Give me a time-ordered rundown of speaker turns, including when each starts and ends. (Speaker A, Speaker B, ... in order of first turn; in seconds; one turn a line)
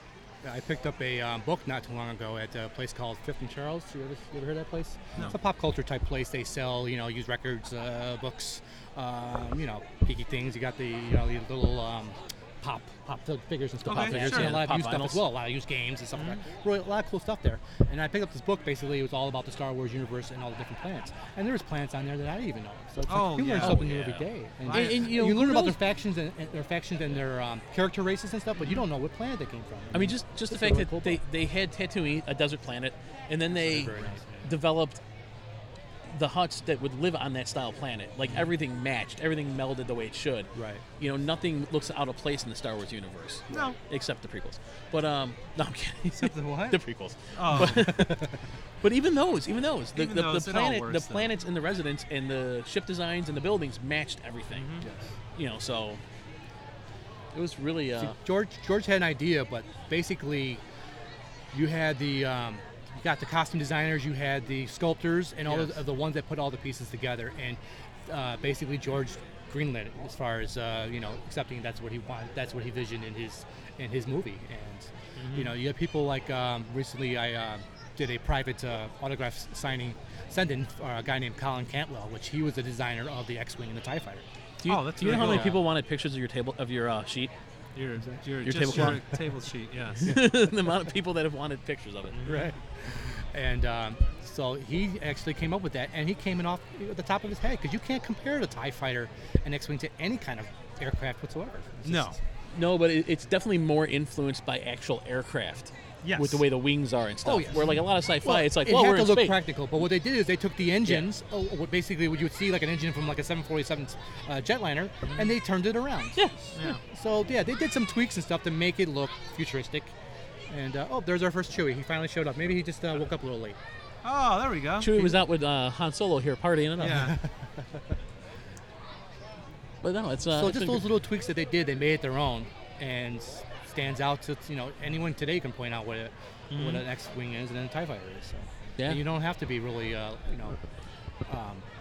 Speaker A: 0.4-31.2
Speaker B: 13.9-14.6
Speaker C: 13.9-15.3
Speaker B: 16.2-16.4
Speaker B: 23.1-25.2
Speaker C: 23.6-24.1
Speaker C: 24.7-25.8
Speaker C: 29.9-35.0
Speaker A: 33.5-34.2
Speaker C: 36.1-48.3
Speaker A: 40.5-40.8
Speaker B: 43.5-43.8
Speaker B: 46.1-46.8
Speaker B: 47.4-47.9
Speaker A: 47.6-48.3
Speaker C: 48.8-54.8
Speaker B: 49.9-51.3
Speaker B: 54.5-54.9
Speaker A: 54.8-55.1
Speaker C: 55.4-56.0
Speaker C: 57.3-58.2
Speaker A: 58.0-60.6
Speaker A: 61.5-84.2
Speaker C: 65.5-65.8
Speaker B: 75.2-75.5
Speaker C: 84.6-87.3
Speaker B: 84.7-85.6
Speaker A: 85.0-85.6
Speaker B: 87.8-90.1
Speaker C: 88.4-89.0
Speaker A: 88.7-89.0
Speaker C: 90.0-92.3
Speaker B: 92.1-92.5
Speaker A: 92.2-102.2
Speaker B: 101.8-102.2
Speaker C: 102.5-109.4
Speaker B: 106.0-106.4
Speaker A: 107.2-119.9
Speaker C: 116.2-116.8
Speaker A: 120.5-123.6
Speaker B: 124.0-125.2
Speaker C: 124.8-127.2
Speaker B: 126.8-127.2
Speaker A: 126.9-127.8
Speaker C: 129.8-130.9
Speaker A: 130.3-140.6
Speaker B: 136.5-136.8
Speaker C: 138.8-139.0
Speaker A: 141.3-141.6